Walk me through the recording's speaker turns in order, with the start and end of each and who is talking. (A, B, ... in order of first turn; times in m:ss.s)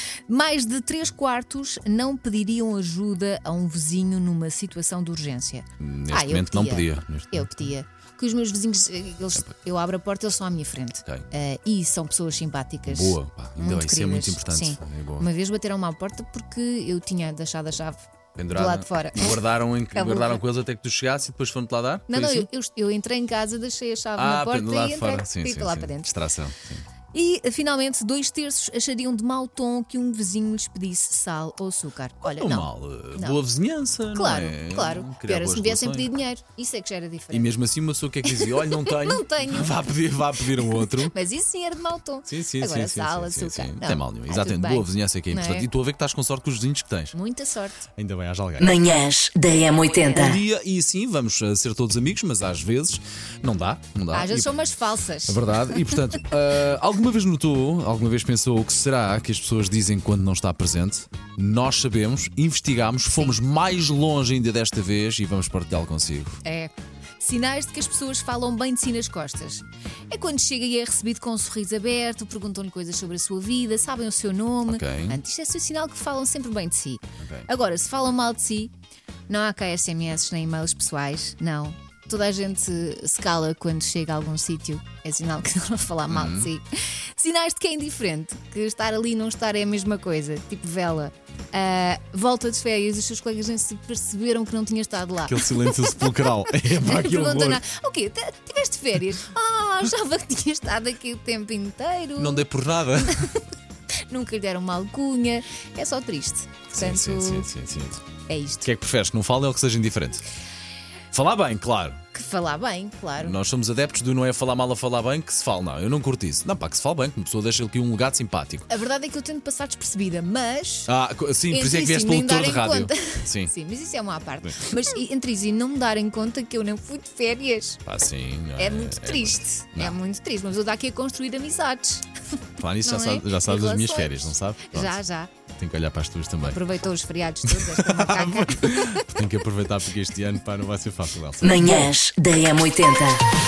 0:00.3-0:19.4 A
0:05.8-0:07.7 B
0:12.9-0:15.3 B
0:18.4-0:22.5 B
0:19.9-0:20.4 A
0:22.1-0:26.2 A
0:24.2-0:26.8 B
0:27.1-0:33.4 A
0:32.2-0:36.1 B
0:34.1-0:37.6 A
0:37.3-0:41.2 B
0:38.3-0:39.9 A
0:40.6-0:45.7 A
0:42.3-0:47.1 B
0:47.1-0:47.9 A
0:48.0-0:48.9 B
0:48.6-0:50.4 C
0:50.1-0:54.5 B
0:54.1-0:55.5 A
0:55.3-1:06.4 B
1:06.4-1:18.7 A
1:14.7-1:15.2 B
1:17.2-1:17.5 B
1:19.3-1:42.5 A
1:26.1-1:26.5 B
1:35.3-1:37.6 B
1:42.2-1:43.3 B
1:44.1-1:47.5 A
1:46.7-1:48.0 B
1:48.3-1:48.7 A
1:48.6-1:50.2 B
1:51.1-1:52.0 B
1:52.1-1:53.4 A
1:53.2-1:58.7 B
1:58.7-2:00.9 A
2:00.9-2:03.5 B
2:01.5-2:07.8 A
2:07.9-2:10.0 B
2:08.6-2:12.1 A
2:12.6-2:15.0 B
2:12.8-2:15.3 A
2:15.6-2:16.6 B
2:16.4-2:19.2 A
2:17.5-2:21.9 B
2:21.4-2:23.2 C